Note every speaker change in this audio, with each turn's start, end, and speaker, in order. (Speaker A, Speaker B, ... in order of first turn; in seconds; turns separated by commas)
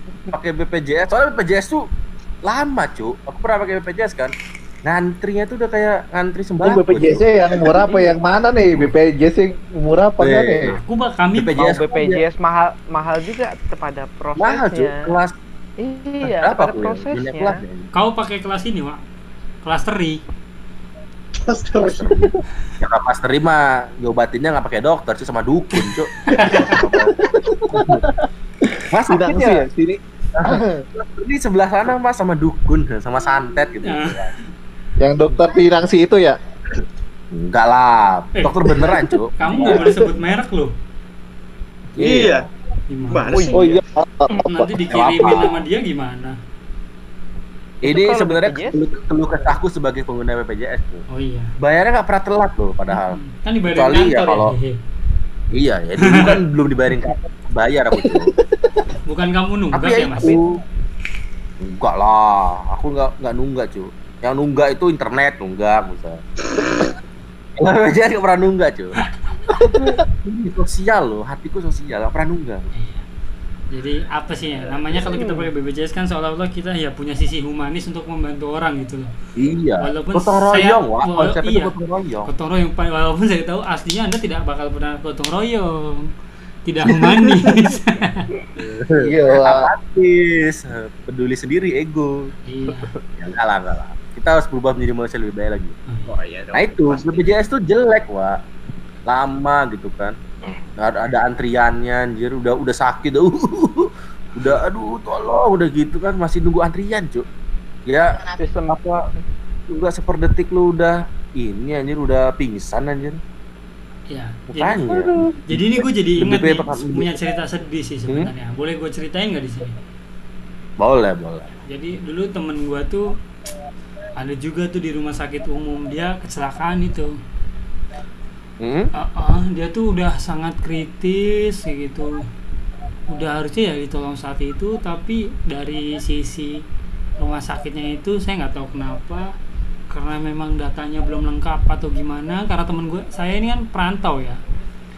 Speaker A: 0.3-1.8, Speaker A: 2.4-4.3, Speaker A: 4.8-7.6, Speaker B: 6.6-10.8, Speaker A: 10.2-10.8, Speaker C: 10.7-11.6, Speaker A: 11.3-12.2, Speaker D: 11.6-15.2, Speaker A: 14.4-15.3, Speaker D: 15.8-17.6, Speaker A: 16.2-17.9, Speaker C: 17.9-19.0, Speaker C: 19.6-20.2, Speaker E: 21.4-22.3, Speaker A: 21.9-27.1, Speaker C: 26.3-26.7, Speaker B: 27.3-28.1, Speaker A: 27.7-28.0, Speaker B: 28.6-30.8, Speaker A: 28.9-29.6, Speaker A: 30.4-34.3, Speaker C: 33.8-34.2, Speaker B: 35.0-36.4, Speaker A: 37.3-39.9, Speaker C: 38.4-40.7, Speaker B: 39.6-40.1, Speaker A: 42.0-42.4, Speaker E: 42.0-42.5, Speaker C: 42.9-43.5, Speaker E: 43.1-43.8, Speaker B: 43.4-44.7, Speaker C: 44.4-46.4, Speaker A: 44.9-45.6, Speaker A: 47.8-51.0, Speaker D: 47.8-48.8, Speaker C: 51.1-51.5, Speaker A: 51.6-54.5, Speaker C: 52.9-54.8, Speaker A: 55.5-58.3, Speaker C: 56.0-56.4, Speaker C: 59.1-60.4, Speaker A: 59.7-60.6, Speaker A: 61.6-66.2, Speaker E: 66.6-66.9, Speaker A: 67.6-68.9, Speaker A: 69.6-72.7, Speaker B: 69.6-69.9, Speaker C: 72.7-73.0, Speaker C: 73.7-79.1, Speaker D: 75.2-75.5, Speaker A: 79.4-82.3, Speaker C: 79.8-81.7, Speaker C: 82.2-86.1, Speaker C: 86.7-88.3, Speaker A: 88.6-92.3, Speaker B: 89.0-89.7, Speaker C: 92.5-92.9, Speaker A: 93.1-95.8, Speaker E: 96.1-97.3, Speaker A: 96.5-98.4, Speaker A: 99.1-100.2, Speaker A: 100.8-107.2, Speaker A: 107.9-109.0, Speaker D: 108.3-108.8, Speaker A: 109.7-113.2, Speaker C: 114.1-114.9, Speaker A: 114.5-115.6, Speaker C: 115.5-119.7, Speaker A: 116.2-117.1, Speaker A: 120.8-121.5, Speaker C: 121.7-123.0, Speaker C: 124.2-127.1, Speaker A: 128.6-128.9, Speaker C: 128.9-132.2, Speaker C: 133.1-136.6, Speaker C: 137.2-139.2, Speaker C: 139.9-144.4